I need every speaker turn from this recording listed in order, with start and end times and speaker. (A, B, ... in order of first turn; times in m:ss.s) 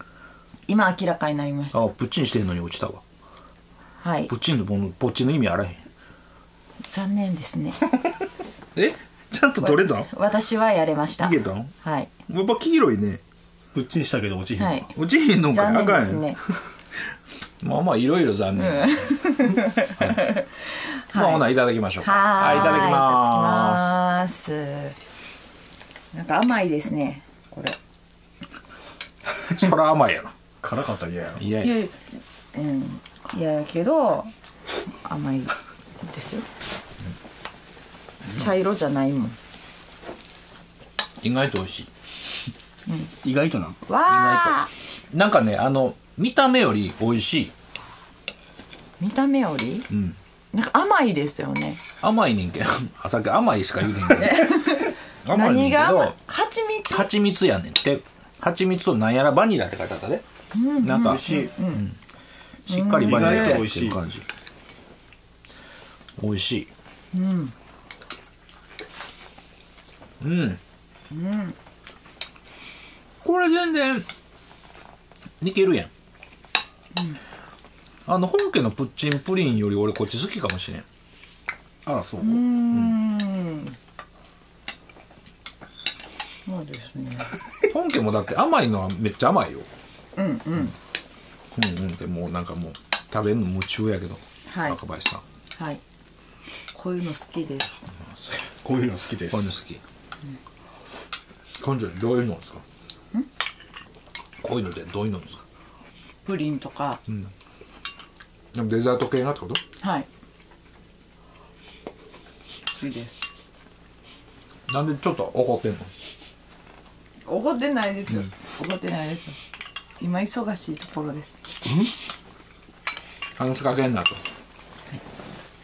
0:00.7-0:01.8 A
0:01.7-0:03.0 B
0:04.0-0:04.3 A
0:04.3-0:05.8 B
0:06.8-0:07.8 A
0:08.7-0:10.1 B
0:09.6-0:12.1 A
0:11.2-0:11.7 B
0:12.3-0:13.2 B
0:13.7-0:14.8 C
0:14.6-0:14.9 A
0:14.9-0:16.4 B
0:15.4-0:16.4 A
0:17.6-0:19.0 B
0:18.6-0:21.4 A
0:21.1-0:24.0 B
0:22.0-0:25.0 A
0:26.1-0:27.8 A
0:29.5-0:30.3 B
0:30.6-0:31.4 C
0:31.4-0:31.7 B
0:31.6-0:32.0 A
0:32.5-0:34.3 A
0:35.0-0:36.4 A
0:38.3-0:39.4 A
0:41.2-0:41.9 B
0:43.2-0:43.8 C
0:43.8-0:44.7 A
0:44.1-0:44.6 B
0:45.1-0:47.5 B
0:49.0-0:49.8 A
0:49.9-0:50.2 B
0:50.5-0:51.8 A
0:52.0-0:54.6 B
0:54.2-0:57.1 A
0:55.2-0:56.1 B
0:56.9-1:00.2 B
1:00.5-1:01.8 A
1:00.8-1:01.2 B
1:01.0-1:01.5 C
1:02.7-1:03.6 A
1:02.7-1:04.2 B
1:03.0-1:04.0 C
1:06.2-1:06.7 B
1:07.1-1:07.5 A
1:10.2-1:10.6 B
1:11.1-1:11.5 A
1:13.2-1:14.0 B
1:15.4-1:15.9 B
1:18.0-1:20.8 B
1:21.8-1:22.4 C
1:22.2-1:23.7 A
1:26.5-1:27.3 A
1:27.7-1:29.7 B
1:30.2-1:30.7 A
1:31.5-1:35.2 B
1:34.5-1:34.8 A
1:36.7-1:37.8 A
1:38.6-1:39.5 C
1:39.3-1:39.8 B
1:41.6-1:42.6 B
1:44.4-1:45.4 B
1:46.2-1:47.0 A
1:48.5-1:49.6 B
1:49.8-1:50.1 A
1:52.8-1:53.1 A
1:54.7-1:55.9 B
1:57.3-1:59.4 A
2:00.0-2:01.3 A
2:01.6-2:01.9 C
2:03.4-2:04.2 B